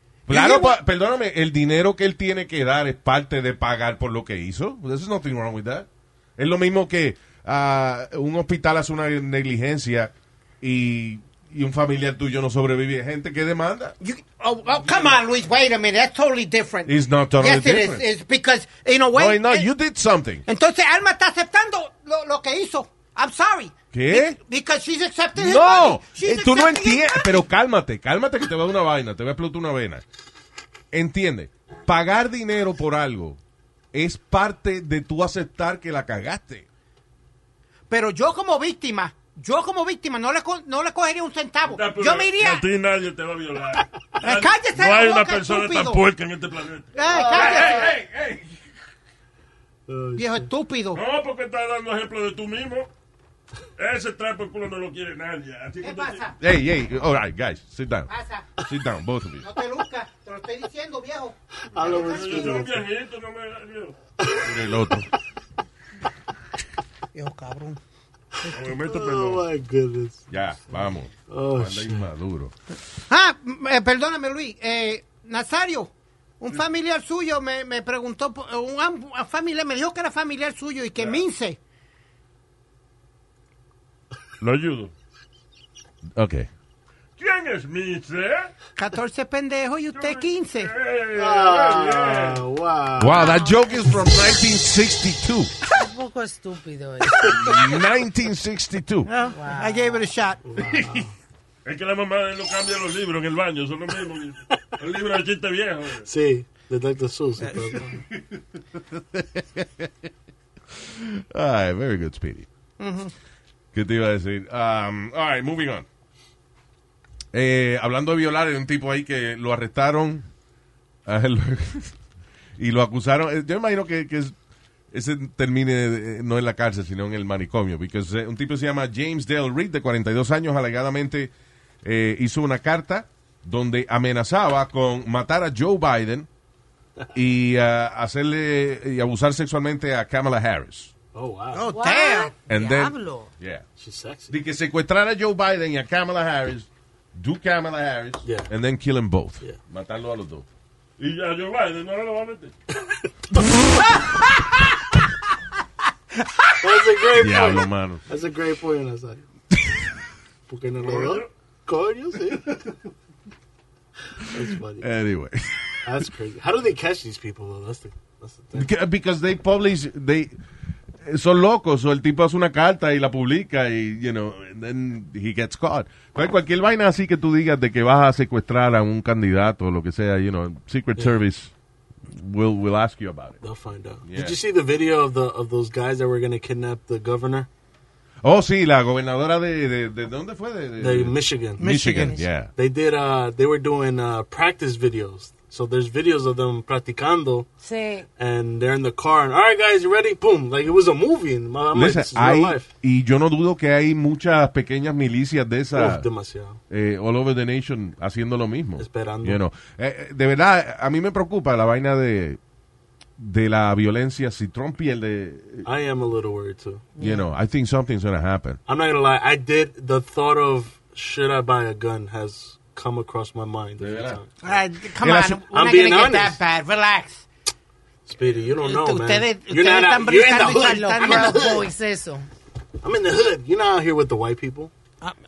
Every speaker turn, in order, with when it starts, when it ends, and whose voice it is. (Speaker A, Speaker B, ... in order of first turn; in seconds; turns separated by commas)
Speaker A: 0.3-13.9, Speaker B: 0.3-0.8, Speaker B: 14.0-19.7, Speaker A: 16.9-18.0, Speaker A: 19.1-20.4, Speaker B: 20.5-27.4, Speaker A: 23.9-24.4, Speaker A: 25.3-30.0, Speaker A: 30.9-33.4, Speaker A: 33.9-36.7, Speaker B: 37.9-42.7, Speaker C: 41.7-48.4, Speaker B: 44.2-46.0, Speaker B: 46.9-47.9, Speaker D: 47.1-47.7, Speaker D: 49.9-50.5, Speaker B: 50.1-51.0, Speaker C: 50.9-52.9, Speaker C: 53.8-56.3, Speaker B: 55.8-56.3, Speaker A: 56.4-59.5, Speaker B: 58.1-58.5, Speaker B: 59.4-62.7, Speaker D: 61.7-62.8, Speaker C: 61.8-63.9, Speaker D: 64.2-64.5, Speaker A: 64.4-65.1, Speaker B: 67.1-67.8, Speaker C: 68.5-69.5, Speaker D: 68.8-70.2, Speaker A: 70.3-72.5, Speaker D: 71.3-72.0, Speaker B: 73.1-81.6, Speaker C: 84.4-84.9, Speaker A: 86.2-86.5, Speaker C: 87.2-88.5, Speaker B: 88.8-90.7, Speaker C: 89.9-92.4, Speaker D: 91.1-93.2, Speaker A: 93.0-95.5, Speaker E: 93.2-93.5, Speaker E: 95.8-97.3, Speaker A: 97.2-99.1, Speaker B: 99.1-100.4, Speaker E: 99.3-100.0, Speaker D: 100.5-101.1, Speaker C: 101.7-106.1, Speaker D: 106.1-108.0, Speaker A: 108.1-110.1, Speaker A: 110.7-112.5, Speaker B: 112.8-113.1, Speaker A: 113.7-115.9, Speaker A: 117.3-120.3, Speaker A: 121.0-121.9, Speaker A: 122.6-124.3, Speaker A: 124.9-131.3, Speaker A: 131.8-136.3, Speaker A: 137.1-140.9, Speaker D: 141.1-141.7, Speaker B: 141.5-142.3, Speaker E: 141.7-143.3, Speaker A: 142.5-143.6, Speaker D: 143.8-144.3, Speaker A: 144.3-150.4, Speaker D: 148.2-148.5, Speaker C: 151.0-152.5, Speaker D: 156.6-159.2, Speaker A: 157.1-158.0, Speaker A: 159.5-159.8, Speaker D: 160.5-162.8, Speaker C: 160.8-161.3, Speaker D: 164.3-164.9, Speaker A: 164.8-165.8, Speaker D: 165.8-168.7, Speaker A: 168.5-170.3, Speaker A: 171.0-181.5, Speaker A: 182.1-183.4, Speaker D: 183.4-187.5, Speaker A: 184.0-184.3, Speaker A: 188.2-192.5, Speaker D: 190.8-191.6, Speaker B: 191.6-192.2, Speaker D: 192.5-197.5, Speaker E: 197.6-198.1, Speaker D: 198.2-202.7, Speaker A: 201.7-206.1, Speaker D: 205.7-206.6, Speaker A: 206.7-212.4, Speaker D: 208.8-209.4, Speaker A: 213.2-215.7, Speaker D: 215.6-216.9, Speaker A: 217.0-218.6, Speaker D: 218.7-224.3, Speaker A: 223.8-224.2, Speaker B: 224.4-227.2, Speaker A: 225.0-225.4, Speaker D: 225.5-226.4, Speaker D: 228.1-231.6, Speaker B: 228.6-231.6, Speaker E: 230.5-232.2, Speaker D: 232.8-234.7